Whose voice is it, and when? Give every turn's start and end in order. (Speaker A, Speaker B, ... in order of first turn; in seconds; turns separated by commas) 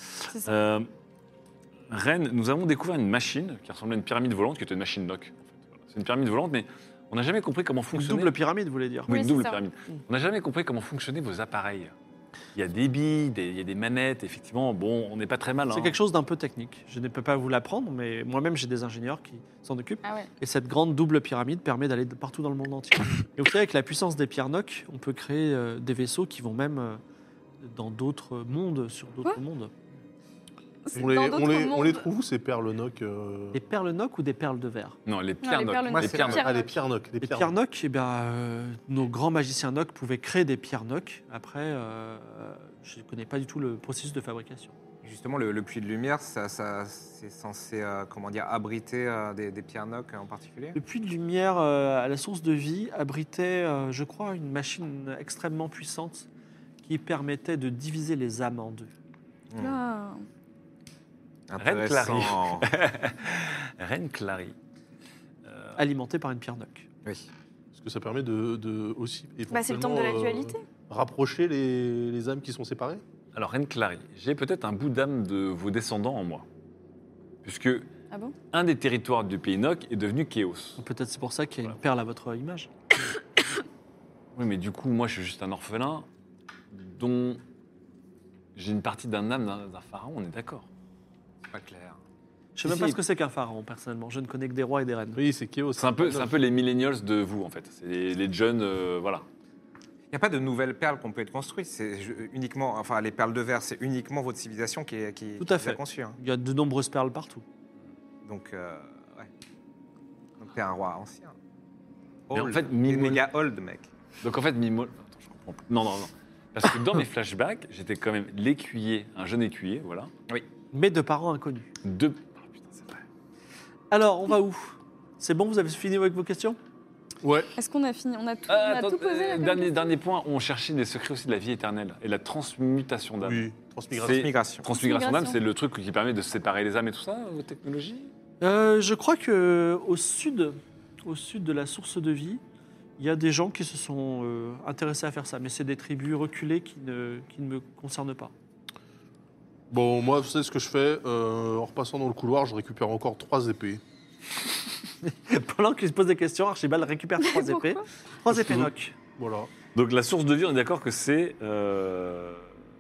Speaker A: 0.3-0.5, Speaker B: 0.5-0.9, Speaker B: 1.9-8.3, Speaker C: 7.9-9.1, Speaker B: 9.1-11.9, Speaker A: 9.1-9.6, Speaker B: 12.6-16.0, Speaker C: 15.7-27.0, Speaker A: 20.0-20.3, Speaker C: 27.6-29.7, Speaker A: 30.9-32.1, Speaker D: 30.9-33.6, Speaker C: 33.5-35.0, Speaker B: 35.1-36.5, Speaker A: 35.4-36.7, Speaker E: 35.9-36.4, Speaker D: 36.2-37.5, Speaker C: 37.2-44.7, Speaker E: 45.0-50.8, Speaker C: 50.8-56.3, Speaker C: 56.8-58.9, Speaker E: 59.5-59.8, Speaker A: 59.6-60.2, Speaker E: 61.5-62.7, Speaker B: 61.6-64.6, Speaker B: 65.5-65.8, Speaker C: 65.8-66.9, Speaker D: 67.8-73.0, Speaker A: 69.5-70.6, Speaker B: 73.3-76.5, Speaker B: 77.4-77.9, Speaker A: 78.1-78.4, Speaker B: 78.5-80.8, Speaker C: 80.8-82.7, Speaker B: 84.3-86.1, Speaker B: 86.7-87.4, Speaker B: 88.5-90.7, Speaker E: 91.5-92.0, Speaker C: 92.6-95.2, Speaker B: 92.6-93.0, Speaker D: 95.2-96.4, Speaker B: 95.8-99.2, Speaker E: 100.1-106.2, Speaker C: 105.4-107.4, Speaker E: 108.2-109.3, Speaker E: 110.4-111.3, Speaker E: 112.3-113.9, Speaker B: 112.3-113.2, Speaker B: 114.2-120.1, Speaker C: 120.7-121.7, Speaker B: 121.8-123.0, Speaker C: 123.9-126.6, Speaker D: 127.2-127.5, Speaker A: 127.6-130.0, Speaker B: 128.5-138.1, Speaker D: 133.2-134.3, Speaker E: 134.1-134.7, Speaker A: 134.7-135.4, Speaker C: 138.4-142.4, Speaker C: 143.0-148.3, Speaker D: 149.7-153.8, Speaker C: 155.0-158.9, Speaker A: 157.2-157.9, Speaker D: 159.2-159.5, Speaker B: 159.8-162.5